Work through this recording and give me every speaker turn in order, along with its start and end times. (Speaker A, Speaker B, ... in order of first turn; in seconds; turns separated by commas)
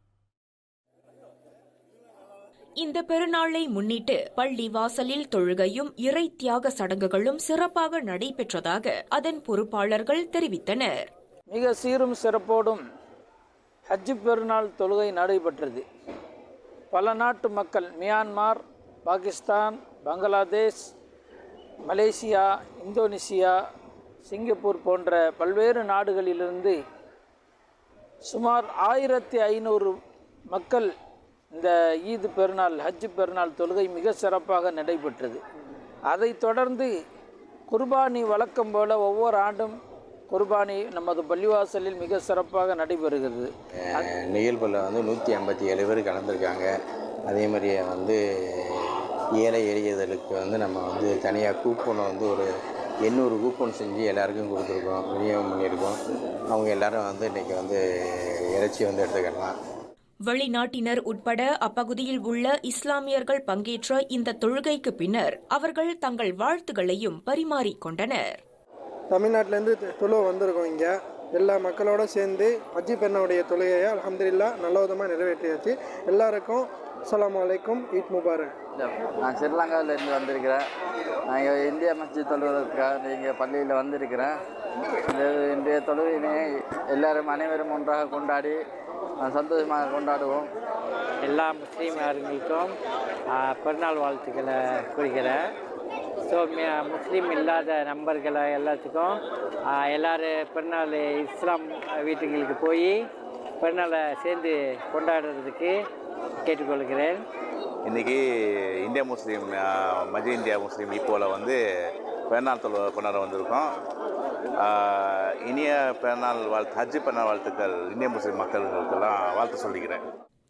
Speaker A: 2.8-11.1, Speaker B: 11.5-12.8, Speaker B: 13.9-15.8, Speaker B: 16.9-20.9, Speaker B: 21.9-23.6, Speaker B: 24.3-26.8, Speaker B: 28.3-29.9, Speaker B: 30.5-30.9, Speaker B: 31.5-35.4, Speaker B: 36.1-36.9, Speaker B: 37.7-39.8, Speaker B: 40.3-44.1, Speaker C: 43.9-46.7, Speaker C: 47.3-52.5, Speaker C: 53.0-56.0, Speaker C: 56.5-59.5, Speaker A: 60.3-68.4, Speaker D: 69.1-78.5, Speaker E: 78.8-80.6, Speaker E: 81.3-84.3, Speaker E: 85.1-88.6, Speaker E: 89.2-90.5, Speaker F: 91.2-92.7, Speaker F: 93.3-95.5, Speaker F: 96.3-99.2, Speaker F: 99.7-103.0, Speaker F: 103.6-105.8, Speaker F: 106.4-107.2, Speaker G: 107.8-108.2, Speaker G: 108.8-111.6, Speaker G: 112.3-113.7, Speaker G: 114.6-120.0